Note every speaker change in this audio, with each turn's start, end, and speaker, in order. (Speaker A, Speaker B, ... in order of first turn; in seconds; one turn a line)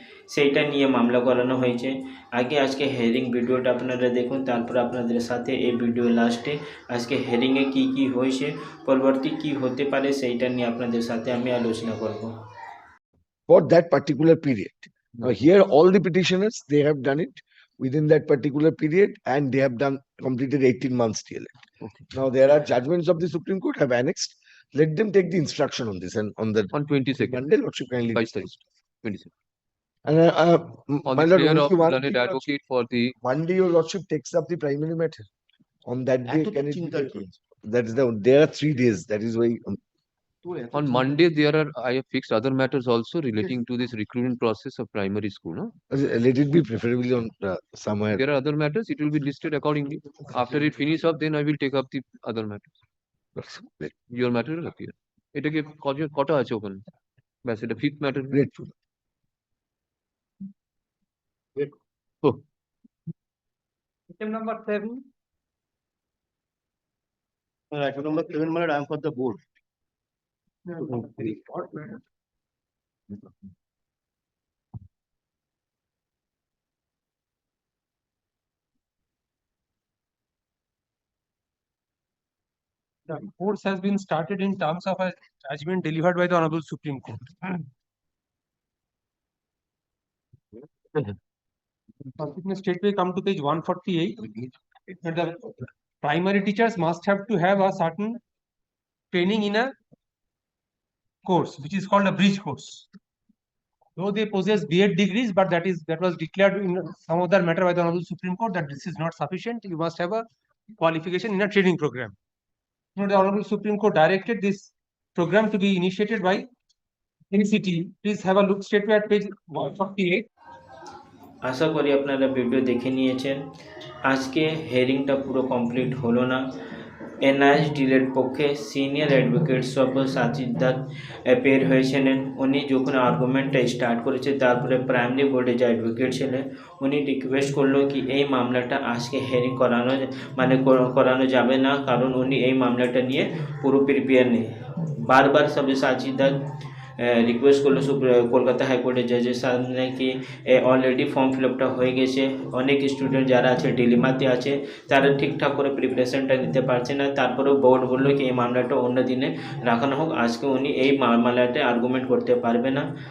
Speaker A: 0.3-12.3
Speaker B: 13.5-21.5
Speaker C: 21.8-22.1
Speaker B: 22.1-28.5
Speaker C: 26.7-27.4
Speaker C: 28.1-29.3
Speaker B: 30.0-32.5
Speaker C: 31.1-33.1
Speaker B: 33.2-35.2
Speaker B: 35.9-39.8
Speaker D: 36.2-37.3
Speaker D: 40.4-41.1
Speaker C: 40.7-45.7
Speaker B: 45.9-48.2
Speaker C: 48.1-52.7
Speaker B: 53.4-53.9
Speaker C: 53.9-56.8
Speaker C: 57.4-58.4
Speaker B: 58.3-58.7
Speaker E: 64.2-65.0
Speaker D: 67.7-69.4
Speaker E: 70.8-71.8
Speaker D: 70.8-71.3
Speaker E: 83.1-87.6
Speaker E: 92.2-94.3
Speaker E: 95.0-98.2
Speaker E: 99.1-99.7
Speaker E: 101.2-102.8
Speaker E: 104.0-110.2
Speaker E: 110.8-112.2
Speaker E: 113.0-116.5
Speaker E: 117.3-120.2
Speaker A: 121.4-123.4
Speaker A: 124.0-126.5
Speaker A: 127.2-146.4
Speaker A: 147.0-162.9